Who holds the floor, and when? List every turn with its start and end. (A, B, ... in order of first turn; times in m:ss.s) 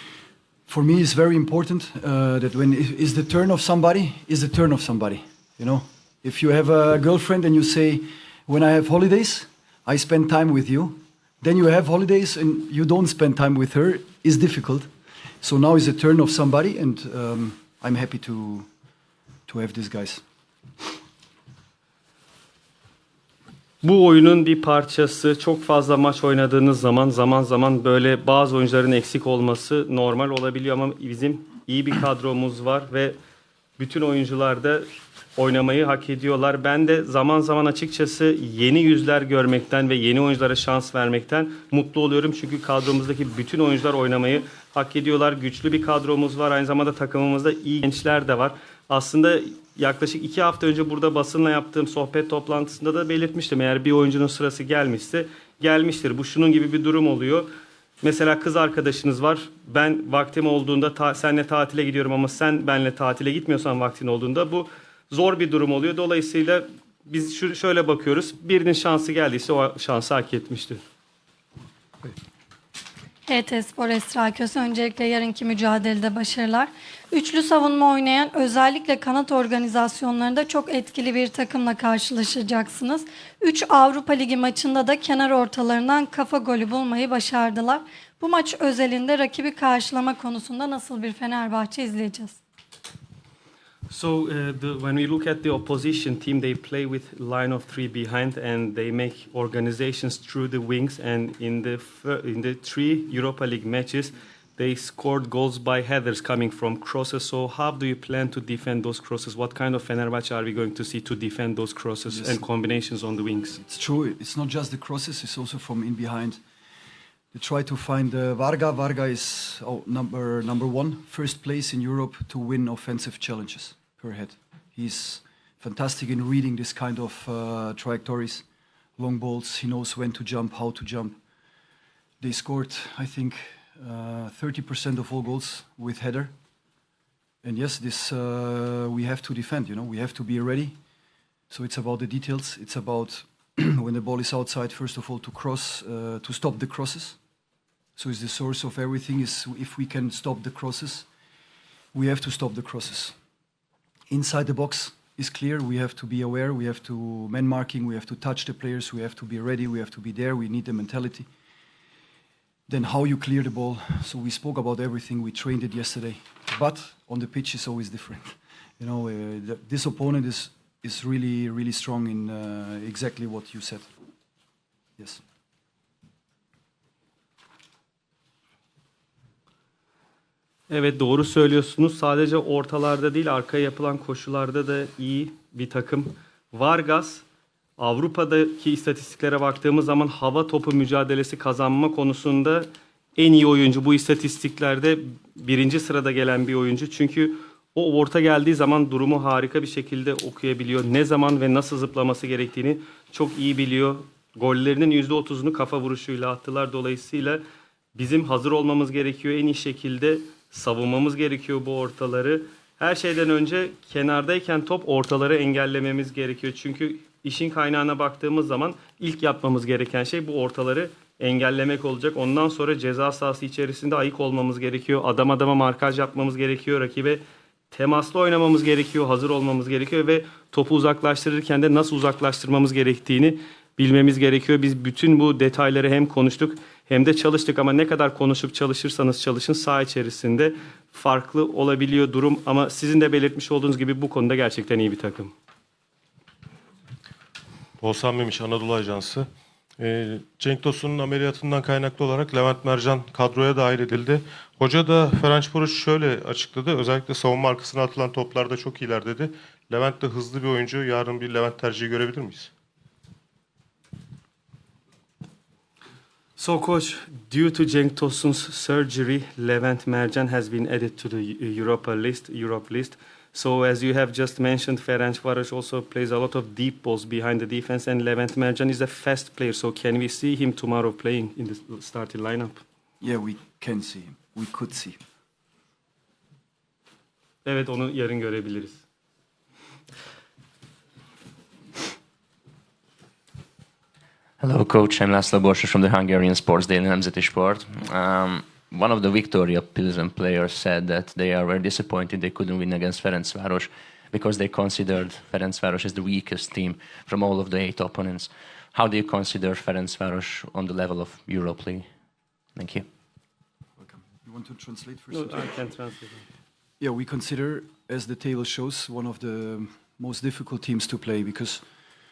0:00.7-0:14.9 A
0:15.4-0:18.7 A
0:19.5-0:20.2 A
0:23.8-0:33.2 B
0:33.8-0:57.5 B
0:58.0-1:10.8 B
1:13.3-1:32.4 C
1:33.9-1:53.6 B
1:52.1-1:52.4 A
1:53.6-1:56.4 A
1:57.3-2:08.4 A
2:09.0-2:11.2 A
2:12.2-2:16.3 A
2:17.4-2:20.8 A
2:21.5-2:27.2 A
2:28.0-2:31.1 A
2:31.9-2:33.2 A
2:34.1-2:41.3 A
2:42.7-2:53.9 A
3:00.7-3:07.2 B
3:07.8-3:27.4 B
3:27.9-4:05.3 B
4:07.8-4:22.5 D
4:26.4-4:42.6 B
4:43.0-4:45.0 A
4:47.4-4:48.8 B
4:54.4-5:11.9 E
5:12.6-5:12.8 E
5:13.8-5:15.5 A
5:15.1-5:16.2 B
5:16.8-5:21.6 A